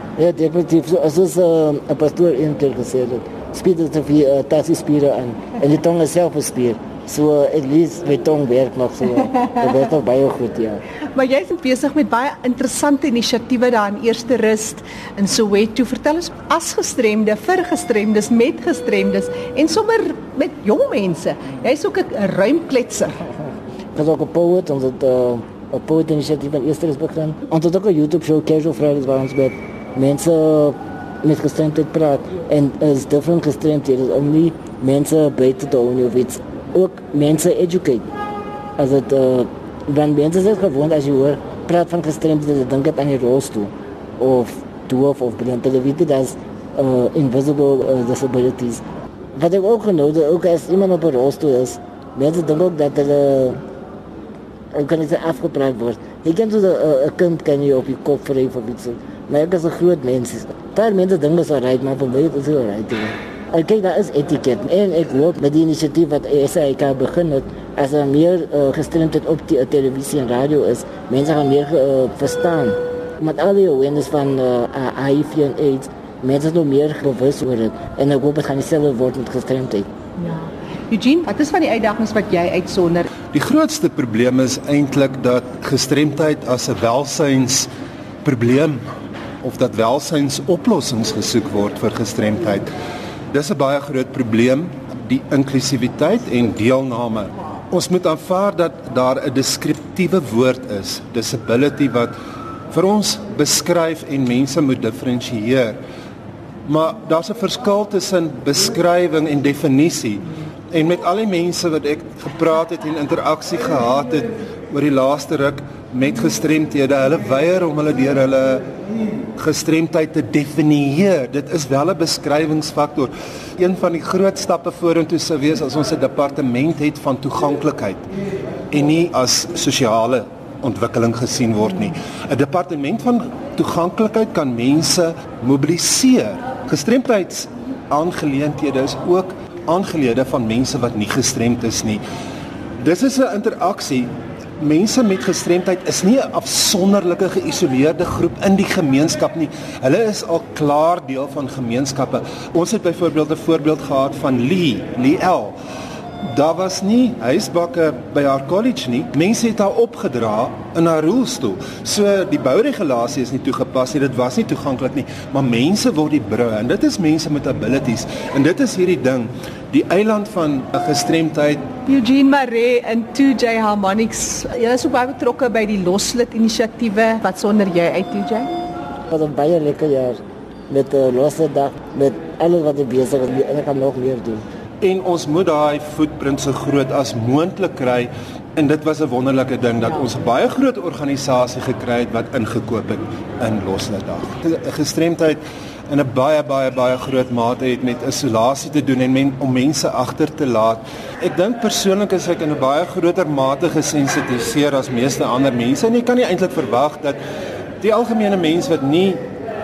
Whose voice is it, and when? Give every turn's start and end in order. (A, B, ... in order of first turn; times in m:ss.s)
0:00.2-0:10.8 A
0:11.1-0:23.2 B
0:23.9-0:38.1 A
0:38.8-0:48.8 A
0:49.4-0:53.6 A
0:54.7-1:19.9 A
1:20.2-1:23.1 B
1:23.3-1:27.7 C
1:28.2-1:28.8 C
1:29.4-1:32.7 C
1:33.3-1:42.1 C
1:42.7-1:45.8 C
1:46.6-1:58.6 C
1:59.4-2:08.1 C
2:08.7-2:22.0 C
2:22.8-2:35.6 C
2:36.2-2:51.7 C
2:51.9-2:58.5 B
2:59.1-3:04.4 A
3:04.8-3:27.2 C
3:27.8-3:29.2 C